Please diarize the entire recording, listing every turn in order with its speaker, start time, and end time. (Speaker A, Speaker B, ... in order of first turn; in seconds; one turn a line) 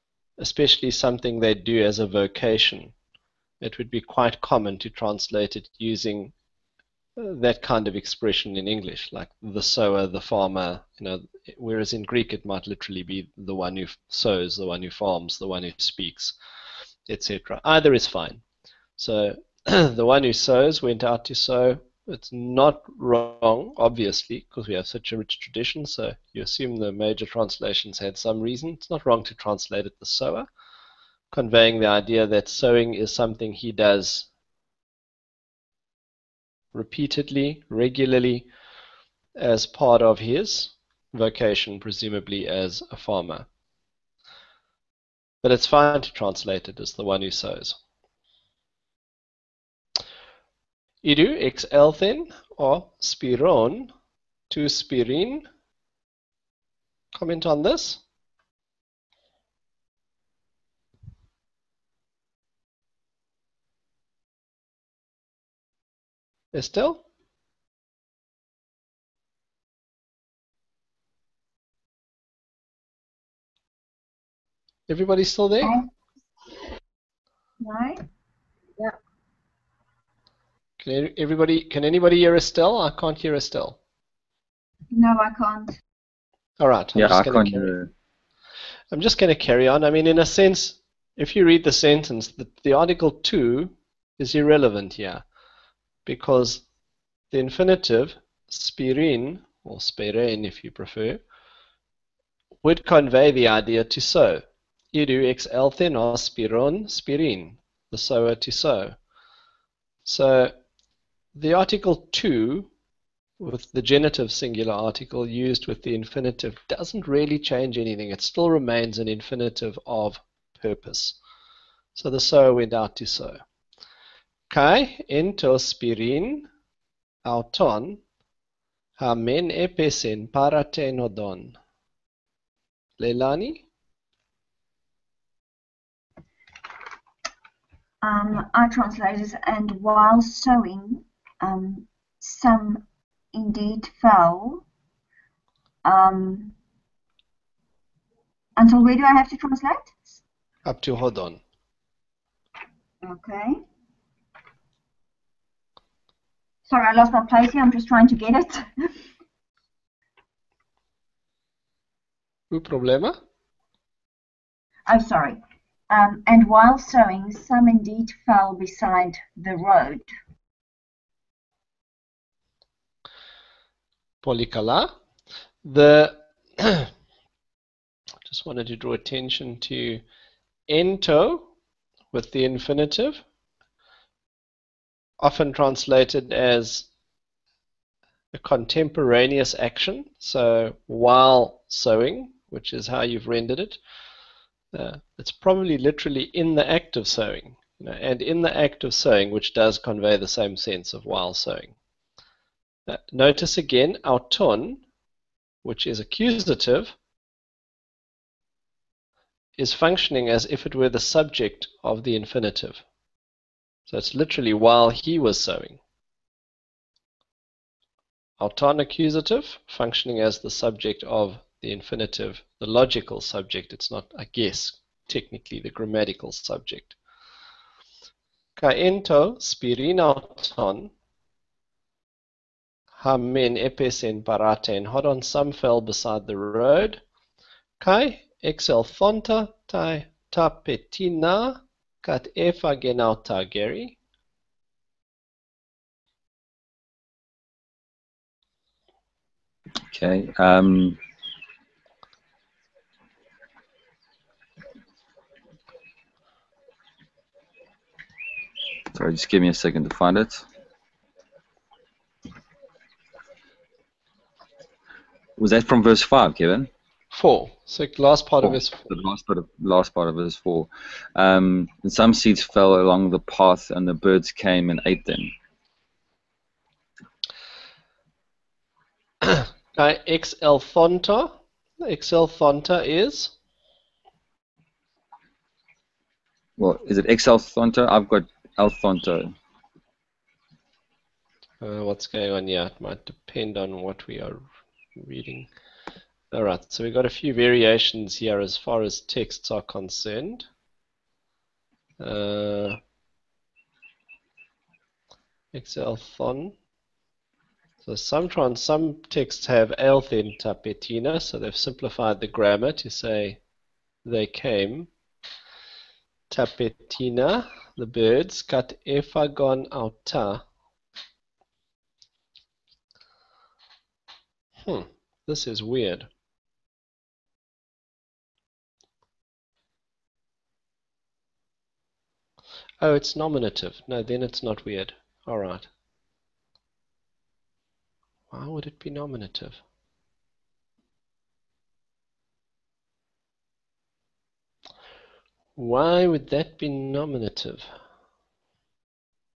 Speaker A: 0.4-2.9
Speaker A: 3.6-6.3
Speaker A: 7.2-16.4
Speaker A: 17.1-18.4
Speaker A: 19.0-30.4
Speaker A: 31.3-34.3
Speaker A: 36.7-38.5
Speaker A: 39.4-43.5
Speaker A: 45.4-47.8
Speaker A: 51.0-53.9
Speaker A: 54.5-55.5
Speaker A: 57.1-58.0
Speaker A: 66.5-67.0
Speaker A: 74.9-75.7
Speaker B: 77.6-78.0
Speaker A: 80.8-83.8
Speaker B: 84.9-85.8
Speaker A: 86.6-87.7
Speaker C: 87.0-87.9
Speaker A: 88.9-95.2
Speaker A: 96.0-96.6
Speaker A: 97.3-101.2
Speaker A: 102.6-108.9
Speaker A: 110.0-110.5
Speaker A: 111.3-112.7
Speaker A: 113.4-121.2
Speaker A: 122.0-123.4
Speaker A: 124.5-126.5
Speaker A: 127.2-128.0
Speaker A: 129.0-131.6
Speaker A: 133.0-133.6
Speaker B: 138.0-144.6
Speaker B: 145.8-146.5
Speaker B: 148.6-150.2
Speaker A: 150.7-151.4
Speaker B: 153.0-153.6
Speaker B: 156.7-158.9
Speaker A: 162.5-163.2
Speaker B: 164.8-170.1
Speaker A: 174.2-174.9
Speaker A: 175.6-176.9
Speaker A: 178.2-180.0
Speaker A: 180.7-181.5
Speaker A: 182.1-183.2
Speaker A: 185.2-186.9
Speaker A: 188.3-193.8
Speaker A: 194.7-201.7
Speaker A: 202.9-204.8
Speaker A: 205.6-206.9
Speaker A: 209.6-212.8
Speaker A: 213.9-215.8
Speaker A: 218.4-226.9
Speaker A: 228.6-230.9
Speaker A: 233.0-237.0
Speaker A: 237.8-244.0
Speaker C: 249.9-251.0
Speaker C: 258.9-260.4
Speaker C: 265.4-266.7
Speaker A: 267.1-268.8
Speaker C: 268.4-275.3
Speaker A: 279.2-283.3
Speaker C: 286.6-289.3
Speaker A: 291.6-294.4
Speaker A: 294.9-295.5
Speaker A: 296.3-300.5
Speaker A: 302.0-302.8
Speaker A: 305.5-306.5
Speaker A: 307.8-313.4
Speaker A: 314.0-314.9
Speaker A: 316.3-320.4
Speaker A: 324.6-326.1
Speaker A: 332.8-335.7
Speaker A: 338.3-339.6
Speaker A: 345.6-347.6